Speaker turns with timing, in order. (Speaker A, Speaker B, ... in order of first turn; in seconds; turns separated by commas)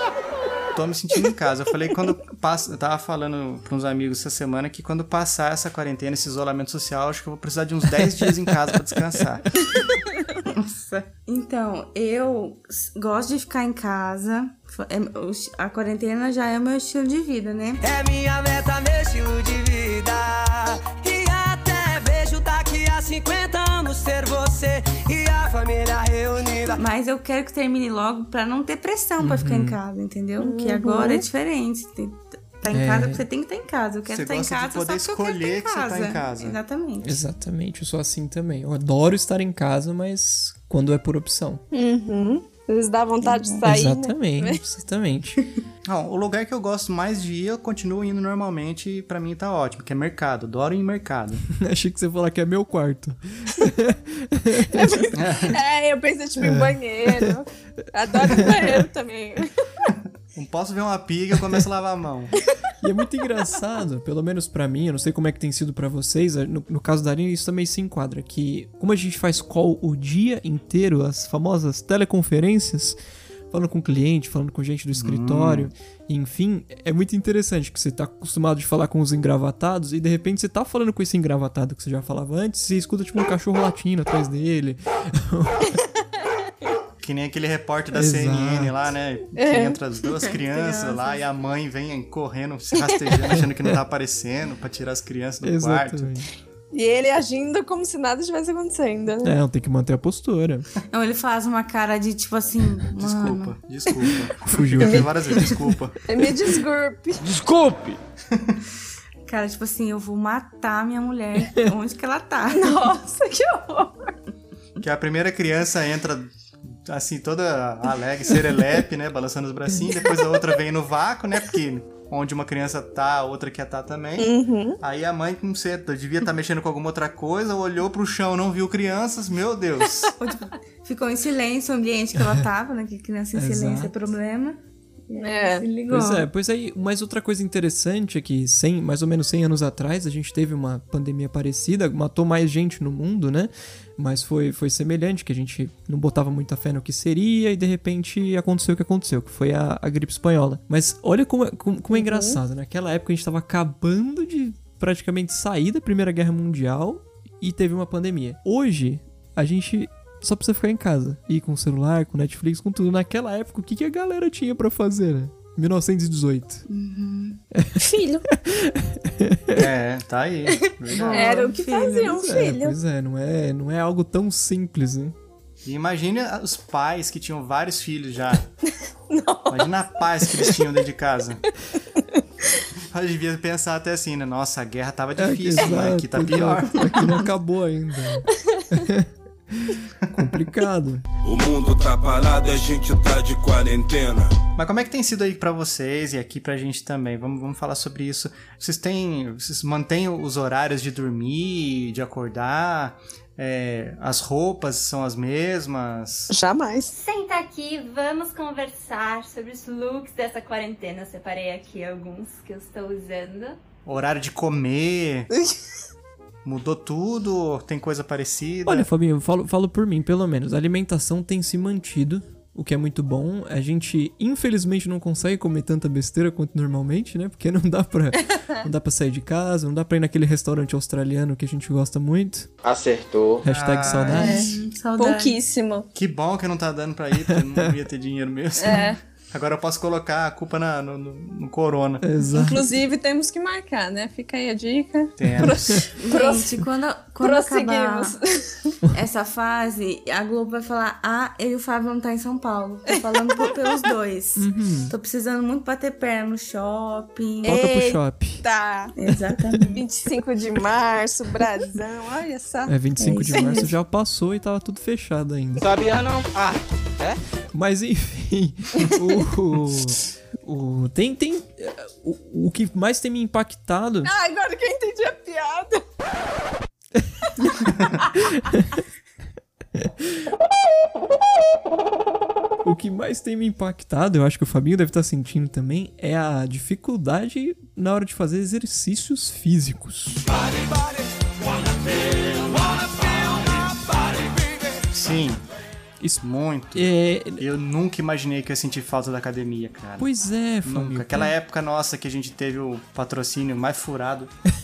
Speaker A: 0.7-9.6, Speaker B: 8.0-8.3, Speaker C: 10.5-17.8, Speaker D: 17.8-26.8, Speaker C: 26.8-37.1, Speaker B: 29.2-29.8, Speaker E: 30.4-31.2, Speaker B: 32.7-33.2, Speaker A: 34.1-36.6, Speaker B: 37.0-41.6, Speaker E: 41.7-44.6, Speaker C: 43.2-43.6, Speaker B: 43.6-45.4, Speaker A: 45.8-51.4, Speaker B: 51.6-55.1, Speaker E: 54.7-59.5, Speaker A: 55.1-55.6, Speaker B: 56.4-57.3, Speaker B: 58.2-58.8, Speaker A: 60.3-62.3, Speaker B: 62.8-73.0, Speaker B: 73.5-85.8, Speaker A: 74.9-75.7, Speaker A: 87.0-96.2, Speaker B: 87.9-88.7, Speaker E: 89.3-89.8, Speaker C: 90.5-91.2, Speaker B: 93.3-93.7, Speaker B: 95.4-96.3, Speaker E: 96.7-99.4, Speaker B: 99.2-100.7, Speaker C: 100.9-103.5, Speaker A: 103.0-106.0, Speaker B: 104.4-105.5, Speaker E: 104.8-105.1, Speaker E: 106.1-107.2, Speaker C: 109.3-112.9, Speaker E: 112.5-114.1, Speaker A: 114.8-130.1, Speaker E: 124.2-124.8, Speaker C: 130.2-136.3, Speaker B: 133.3-133.9, Speaker E: 135.2-135.7, Speaker B: 135.9-166.6, Speaker E: 151.9-152.4, Speaker C: 166.7-167.4, Speaker E: 167.8-168.2, Speaker B: 168.3-169.6, Speaker A: 169.5-171.5, Speaker C: 170.9-172.2, Speaker E: 171.1-172.8, Speaker B: 172.2-175.1, Speaker A: 175.6-178.5, Speaker E: 179.1-179.7, Speaker A: 179.5-181.4, Speaker E: 182.1-182.6, Speaker A: 182.9-187.2, Speaker B: 185.2-191.0, Speaker A: 190.0-190.5, Speaker F: 191.2-194.3, Speaker A: 194.6-206.3, Speaker E: 206.3-206.9, Speaker G: 206.9-213.6, Speaker A: 213.8-215.3, Speaker A: 216.4-218.9, Speaker B: 218.7-232.5, Speaker H: 232.6-233.4, Speaker B: 233.4-234.5, Speaker A: 233.4-234.4, Speaker C: 234.1-235.3, Speaker E: 234.1-235.9, Speaker A: 235.9-242.0, Speaker B: 237.3-237.7, Speaker E: 238.6-239.0, Speaker B: 242.0-242.6, Speaker E: 242.3-246.6, Speaker A: 245.2-245.8, Speaker B: 245.4-245.8, Speaker C: 246.0-248.1, Speaker E: 247.2-248.8, Speaker C: 248.9-257.6, Speaker B: 254.4-254.9, Speaker E: 257.4-258.9, Speaker B: 257.4-258.4, Speaker C: 259.0-259.8, Speaker B: 259.1-259.6, Speaker E: 259.6-262.7, Speaker B: 262.7-265.7, Speaker C: 263.0-263.7, Speaker H: 265.6-267.1, Speaker B: 267.5-274.1, Speaker E: 274.0-275.8, Speaker B: 277.0-277.5, Speaker B: 278.1-278.7, Speaker B: 279.7-280.1, Speaker B: 282.6-290.2, Speaker A: 294.9-295.4, Speaker A: 296.2-300.1, Speaker B: 296.7-297.4, Speaker B: 300.0-301.3, Speaker A: 300.6-304.3